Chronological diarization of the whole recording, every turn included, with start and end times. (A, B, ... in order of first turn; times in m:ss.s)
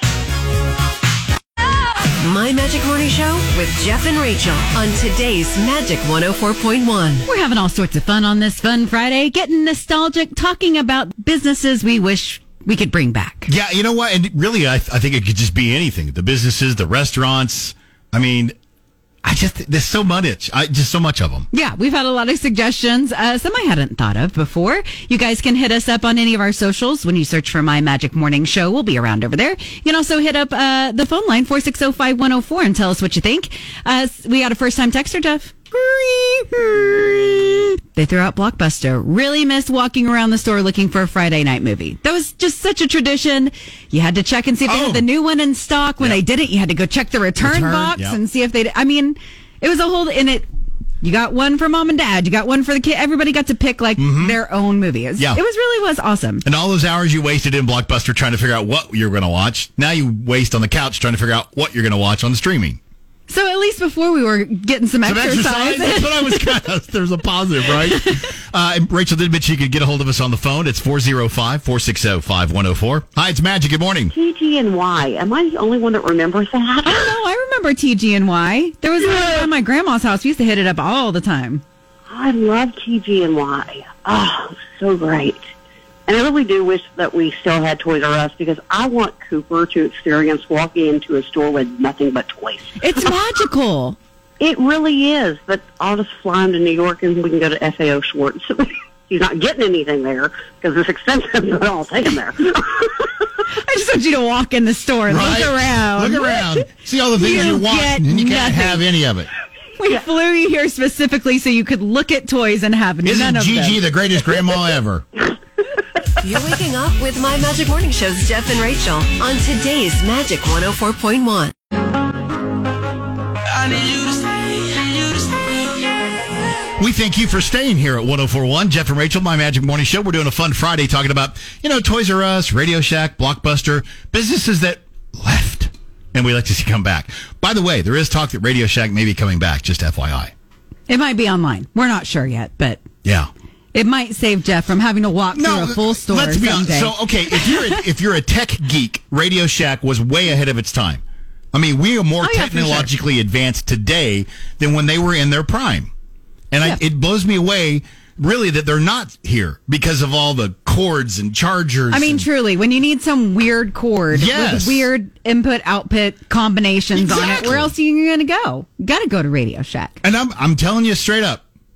0:02.2-0:07.2 A
0:07.2-0:13.5 B
0:13.5-0:18.6 C
0:19.2-0:21.5 C
0:21.5-0:50.4 B
0:44.7-0:45.1 C
0:47.4-0:48.2 C
0:51.0-0:56.4 B
0:54.0-0:54.4 C
0:56.4-1:02.8 C
1:03.3-1:06.5 B
1:05.0-1:14.1 C
1:14.1-1:17.1 D
1:16.8-1:21.6 B
1:22.1-1:25.5 D
1:26.1-1:32.7 D
1:32.8-1:34.0 B
1:34.4-1:42.9 D
1:43.5-1:46.6 B
1:45.1-1:49.3 C
1:47.2-1:48.8 B
1:49.8-1:53.8 B
1:53.0-1:55.0 C
1:56.2-2:01.5 A
2:03.5-2:05.8 E
2:06.8-2:20.3 C
2:20.9-2:22.8 B
2:23.0-2:23.3 C
2:23.7-2:27.8 B
2:25.3-2:35.9 C
2:32.2-2:32.9 B
2:36.5-2:42.2 C
2:41.9-2:50.0 B
2:44.1-2:44.9 C
2:46.9-2:47.7 C
2:50.0-2:51.4 C